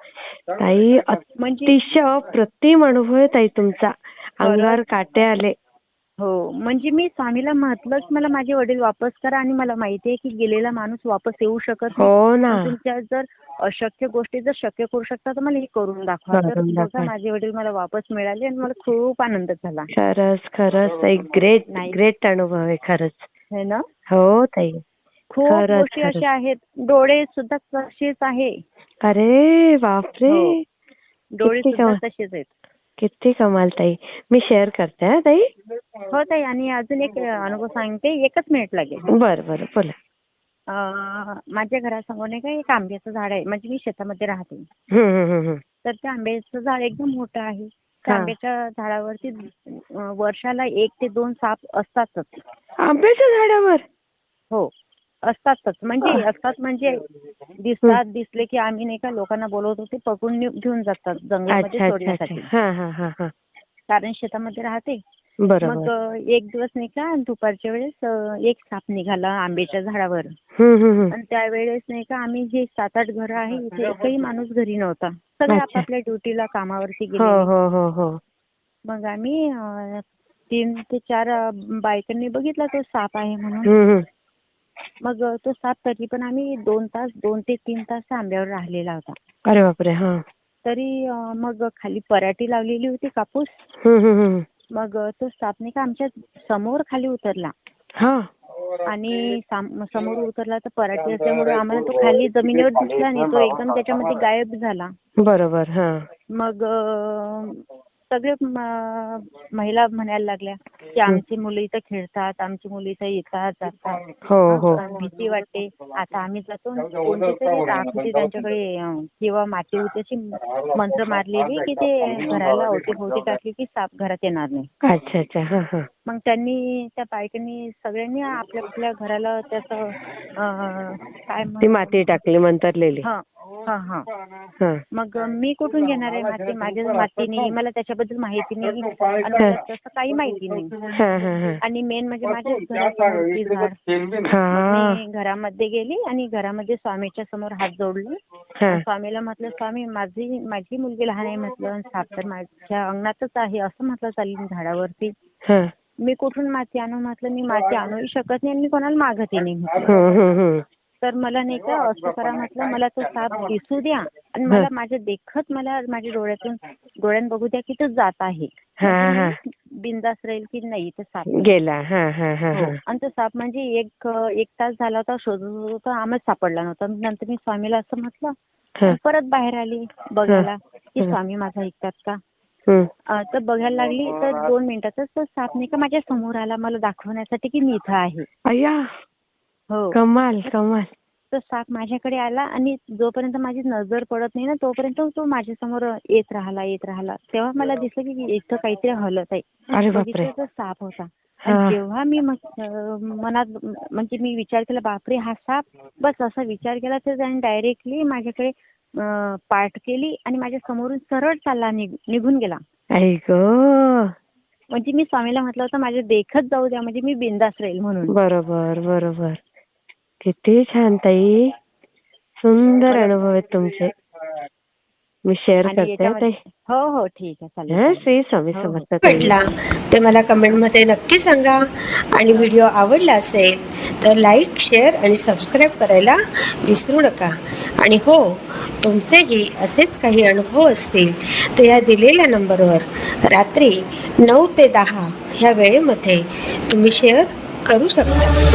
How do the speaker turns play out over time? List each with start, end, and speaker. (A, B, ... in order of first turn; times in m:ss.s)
0:00.6-0:05.6 A
0:01.4-0:01.8 B
0:04.4-0:04.8 B
0:06.2-0:19.9 B
0:12.0-0:12.7 A
0:16.3-0:17.1 A
0:19.9-0:23.3 A
0:21.7-0:22.0 B
0:23.5-0:23.8 B
0:24.1-0:24.8 A
0:25.3-0:28.5 B
0:25.4-0:26.2 A
0:29.0-0:30.6 A
0:30.2-0:30.6 B
0:31.3-0:32.5 B
0:31.4-0:32.0 A
0:33.0-0:35.5 A
0:36.1-0:39.0 B
0:39.2-0:40.0 A
0:40.7-0:44.6 B
0:44.9-0:45.6 A
0:45.8-0:52.3 B
0:48.1-0:48.3 A
0:52.8-0:53.8 A
0:55.2-0:57.0 B
0:57.6-1:02.5 B
1:01.5-1:03.3 A
1:03.9-1:05.0 B
1:05.4-1:05.9 A
1:05.6-1:10.3 B
1:10.6-1:11.1 A
1:11.1-1:17.5 B
1:15.5-1:15.8 A
1:17.2-1:18.2 A
1:18.9-1:23.7 B
1:23.6-1:24.1 A
1:25.0-1:29.2 B
1:29.4-1:30.2 A
1:30.6-1:33.5 B
1:33.8-1:34.4 A
1:34.7-1:37.5 B
1:38.0-1:38.3 A
1:38.8-1:44.9 B
1:45.2-1:46.0 A
1:46.3-2:04.7 B
1:54.3-1:54.8 A
2:04.8-2:05.9 A
2:06.0-2:12.2 B
2:11.6-2:13.1 A
2:13.0-2:14.0 B
2:14.9-2:20.7 B
2:20.9-2:21.6 A
2:21.6-2:23.8 B
2:24.3-2:25.0 A
2:24.5-2:28.2 B
2:28.6-2:28.8 A
2:28.7-2:35.1 B
2:35.4-2:35.7 A
2:36.0-2:40.0 B
2:39.8-2:40.6 A
2:41.0-2:51.5 B
2:48.8-2:49.4 A
2:51.3-2:52.8 A
2:52.5-2:58.3 B
2:58.8-3:02.2 B
3:03.1-3:08.3 B
3:08.5-3:08.8 A
3:09.7-3:10.0 B
3:09.9-3:10.9 A
3:11.3-3:32.6 B
3:19.7-3:20.3 A
3:21.4-3:21.8 A
3:33.0-3:34.1 A
3:34.7-3:38.1 B
3:38.1-3:39.4 A
3:40.2-3:41.5 A
3:42.4-3:43.9 A
3:45.3-3:46.4 A
3:45.6-3:48.8 B
3:47.7-3:49.3 A
3:49.0-3:51.6 C
3:52.1-4:08.3 C